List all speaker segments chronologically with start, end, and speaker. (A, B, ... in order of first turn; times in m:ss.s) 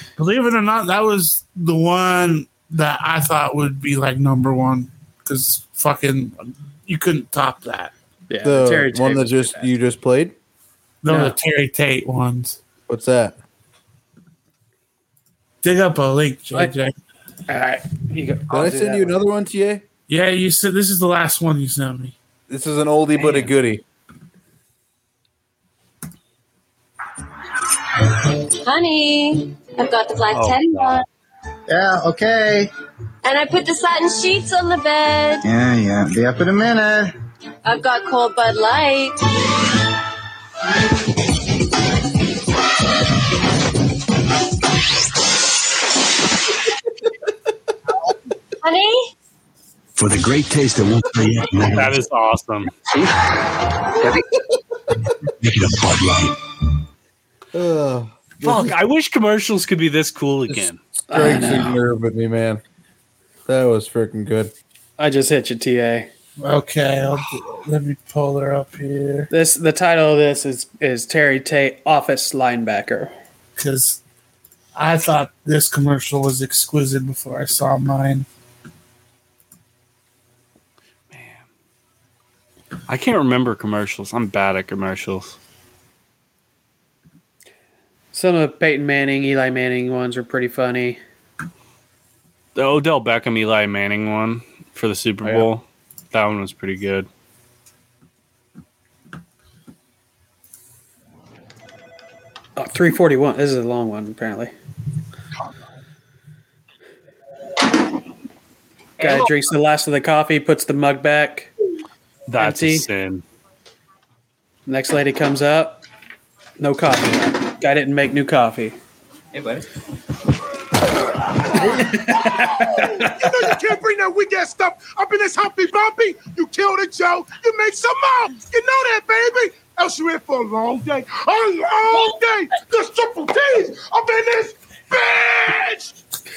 0:00.2-0:07.9 A
0:08.3-0:09.7 B
0:08.4-0:10.3 C
0:11.0-0:12.6 A
0:11.1-0:11.4 B
0:12.9-0:13.4 C
0:15.6-0:16.9 A
0:17.5-0:19.2 B
0:18.5-0:19.8 C
0:20.1-0:22.1 A
0:22.5-0:23.8 C
0:28.6-0:31.0 D
0:30.3-0:31.0 E
0:31.7-0:32.7 F
0:33.2-0:35.4 D
0:35.4-0:37.1 F
0:37.6-0:39.2 D
0:48.6-0:49.1 D
0:49.9-0:51.9 G
0:51.7-0:52.7 E
0:55.4-0:56.4 G
0:57.5-0:58.8 C
0:58.4-1:00.8 E
1:00.5-1:02.6 C
1:01.1-1:01.8 B
1:03.4-1:04.5 C
1:05.0-1:06.1 B
1:06.4-1:09.3 A
1:09.3-1:13.1 B
1:13.6-1:14.0 A
1:14.8-1:18.2 A
1:21.1-1:21.4 E
1:22.9-1:25.3 E
1:28.1-1:31.0 B
1:32.6-1:37.1 E
1:42.6-1:44.5 B
1:49.0-1:51.5 B
1:52.3-1:53.2 E
1:52.4-1:52.8 B
1:54.7-1:55.8 B
1:56.6-1:58.8 B
2:01.6-2:15.9 H
2:01.8-2:03.1 B